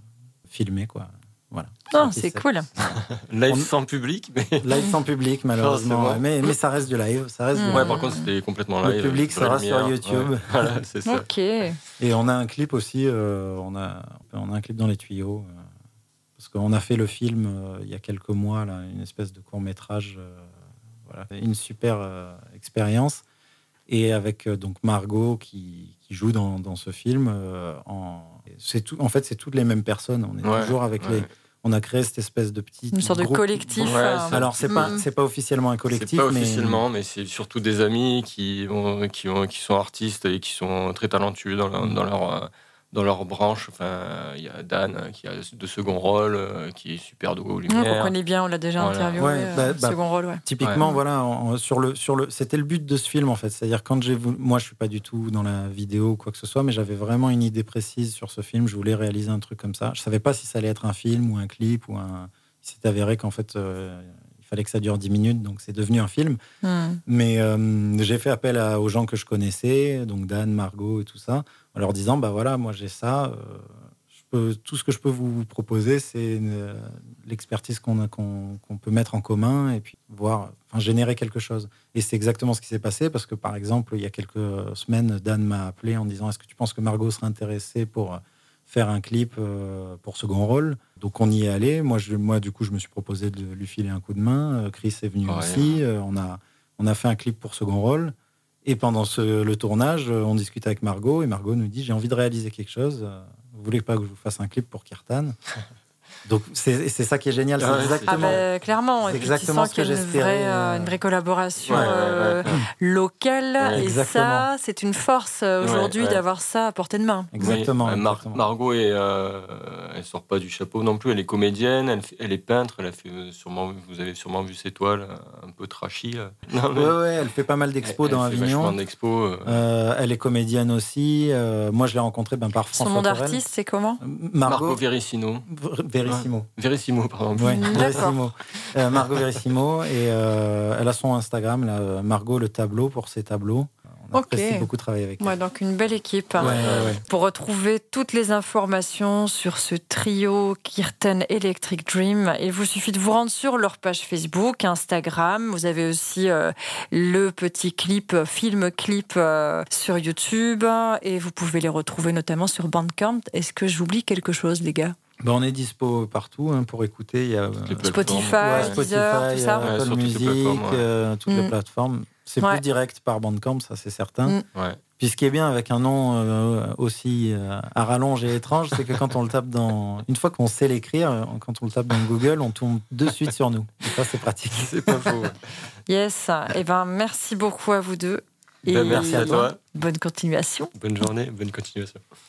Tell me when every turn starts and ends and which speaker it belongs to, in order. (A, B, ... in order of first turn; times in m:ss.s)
0:00.5-0:03.7 A
0:01.9-0:02.7 B
0:03.3-0:04.8 C
0:04.6-0:08.0 A
0:05.6-0:06.6 C
0:07.5-0:08.3 B
0:07.6-0:11.3 C
0:08.8-0:10.7 A
0:11.0-0:11.8 B
0:12.0-0:15.5 A
0:16.4-0:20.5 A
0:21.1-0:23.2 A
0:23.9-0:36.8 A
0:30.4-0:31.3 C
0:32.9-0:35.0 B
0:33.8-0:35.0 C
0:35.9-0:48.1 C
0:47.7-0:51.0 B
0:48.8-0:49.3 C
0:49.2-1:06.4 A
1:06.6-1:07.0 B
1:07.1-1:38.1 A
1:35.2-1:35.8 C
1:38.6-1:45.3 A
1:46.2-1:48.4 A
1:47.6-1:48.4 C
1:48.1-1:57.3 B
1:49.0-1:51.0 A
1:51.7-1:52.6 C
1:53.6-1:53.9 C
1:53.7-1:54.5 A
1:55.6-1:56.2 C
1:57.3-1:58.5 A
1:57.4-2:07.0 C
2:06.7-2:08.8 A
2:07.8-2:09.6 C
2:09.4-2:13.4 A
2:12.7-2:14.0 B
2:14.0-2:14.8 A
2:14.4-2:15.4 C
2:15.5-2:16.5 A
2:16.0-2:18.2 C
2:17.3-2:25.4 A
2:17.4-2:18.2 B
2:18.8-2:19.3 C
2:24.1-2:45.0 B
2:26.4-2:27.0 C
2:26.4-2:27.0 A
2:45.2-2:54.4 A
2:47.6-2:48.8 C
2:47.8-2:49.7 B
2:49.6-2:50.8 C
2:51.3-2:51.5 B
2:54.5-2:54.8 C
2:55.0-3:05.1 A
3:04.5-3:05.7 C
3:05.9-3:10.7 B
3:08.7-3:09.6 C
3:08.8-3:09.5 A
3:10.8-3:12.0 C